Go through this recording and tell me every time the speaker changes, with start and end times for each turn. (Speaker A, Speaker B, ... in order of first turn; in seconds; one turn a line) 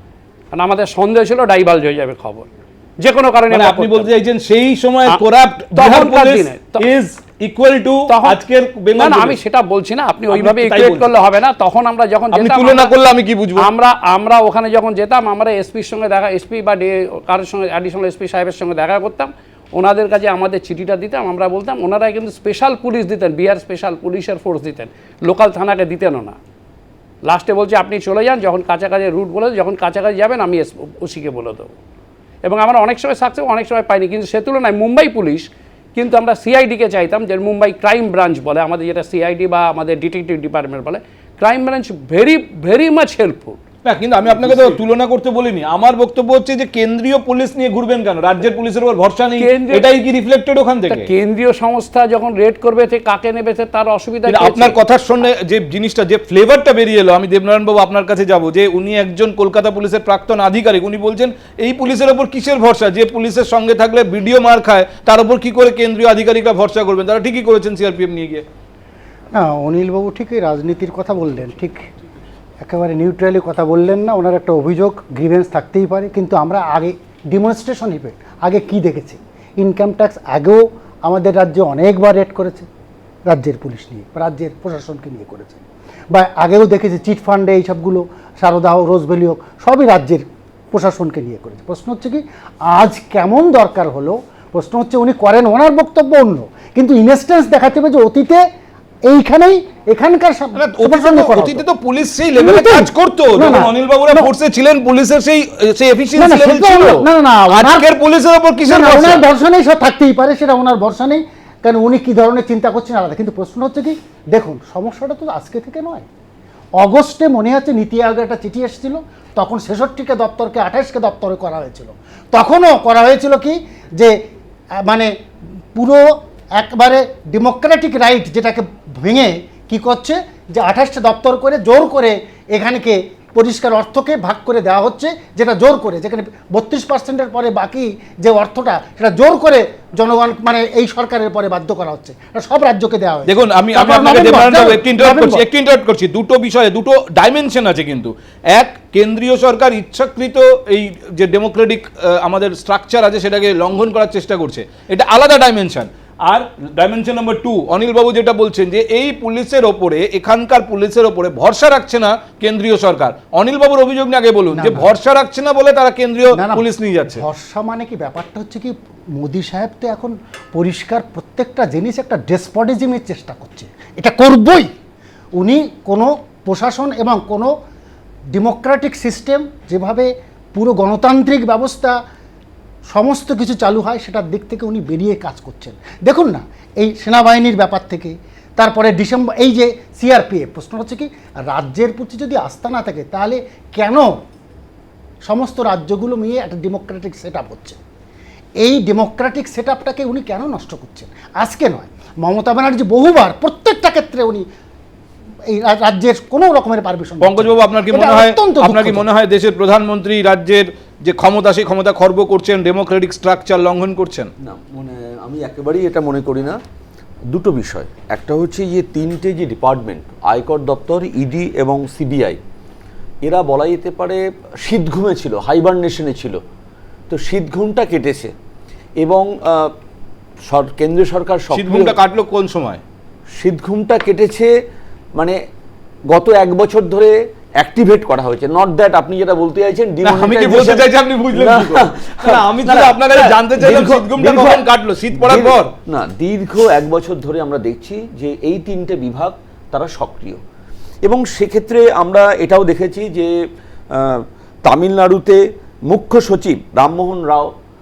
Speaker A: 0.5-2.5
Speaker A: 3.0-4.1
Speaker B: 3.5-9.4
Speaker A: 5.8-6.8
Speaker A: 8.1-8.4
Speaker A: 8.9-12.9
Speaker B: 10.3-11.1
Speaker B: 12.3-13.7
Speaker A: 13.6-26.4
Speaker A: 27.2-31.7
Speaker A: 32.4-43.6
Speaker B: 43.9-51.1
Speaker A: 49.4-49.9
Speaker A: 50.9-54.8
Speaker B: 54.3-68.5
Speaker C: 69.3-71.8
Speaker C: 72.6-82.7
Speaker C: 83.3-98.4
Speaker C: 99.1-101.6
Speaker B: 100.5-109.2
Speaker C: 102.4-104.3
Speaker C: 106.2-107.9
Speaker C: 108.7-116.0
Speaker C: 116.8-124.1
Speaker C: 125.8-126.0
Speaker C: 126.6-145.4
Speaker B: 143.3-167.2
Speaker C: 164.5-164.9
Speaker C: 166.3-174.7
Speaker C: 175.4-177.5
Speaker C: 178.3-181.9
Speaker C: 182.9-194.1
Speaker C: 195.2-197.8
Speaker C: 198.6-204.4
Speaker C: 205.5-209.1
Speaker B: 207.2-214.3
Speaker D: 214.4-216.6
Speaker D: 217.3-222.4
Speaker D: 223.2-226.4
Speaker D: 227.1-228.3
Speaker D: 229.0-229.7
Speaker D: 230.4-232.0
Speaker B: 231.5-232.8
Speaker D: 233.4-234.5
Speaker D: 236.1-250.4
Speaker B: 240.0-245.7
Speaker D: 251.0-253.3
Speaker D: 253.9-257.5